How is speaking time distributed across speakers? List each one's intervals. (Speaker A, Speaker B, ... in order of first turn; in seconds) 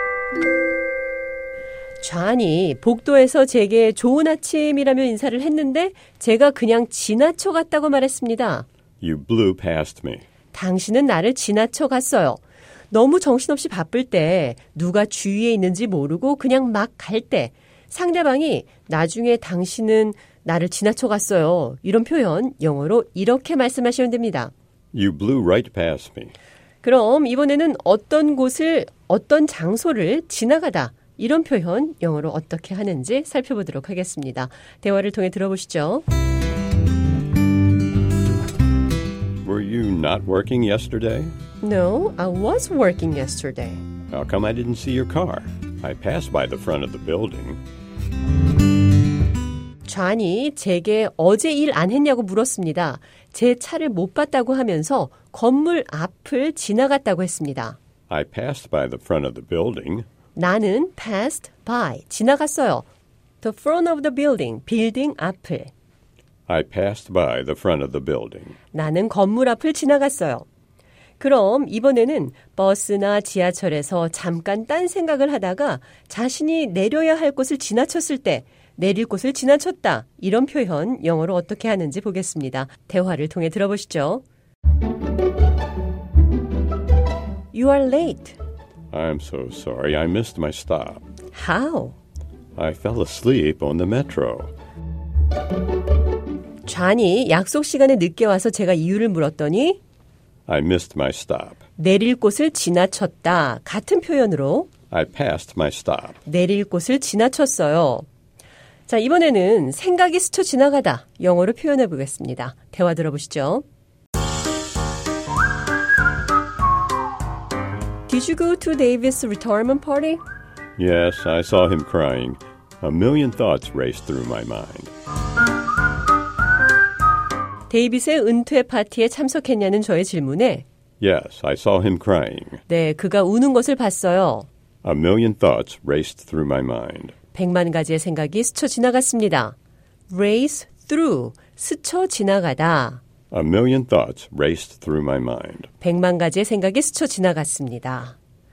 Speaker A: 2.0-8.7, 10.5-24.5, 26.8-36.0, 41.6-43.8, 49.9-57.8, 60.4-62.9, 63.4-65.7, 68.7-70.5, 71.2-84.2, 87.5-88.4, 91.3-92.0, 96.7-99.8, 101.8-104.7, 106.2-108.0, 108.9-113.6, 118.1-120.2, 127.7-130.6, 132.7-134.5, 137.3-139.6, 140.1-143.0, 145.8-148.2
Speaker B: 9.0-10.2, 24.9-26.3, 39.4-41.3, 44.1-47.6, 58.1-60.0, 66.5-68.6, 88.9-91.0, 92.5-94.5, 100.5-101.6, 104.9-106.2, 120.8-124.9, 131.0-132.6, 134.8-137.1, 143.3-145.7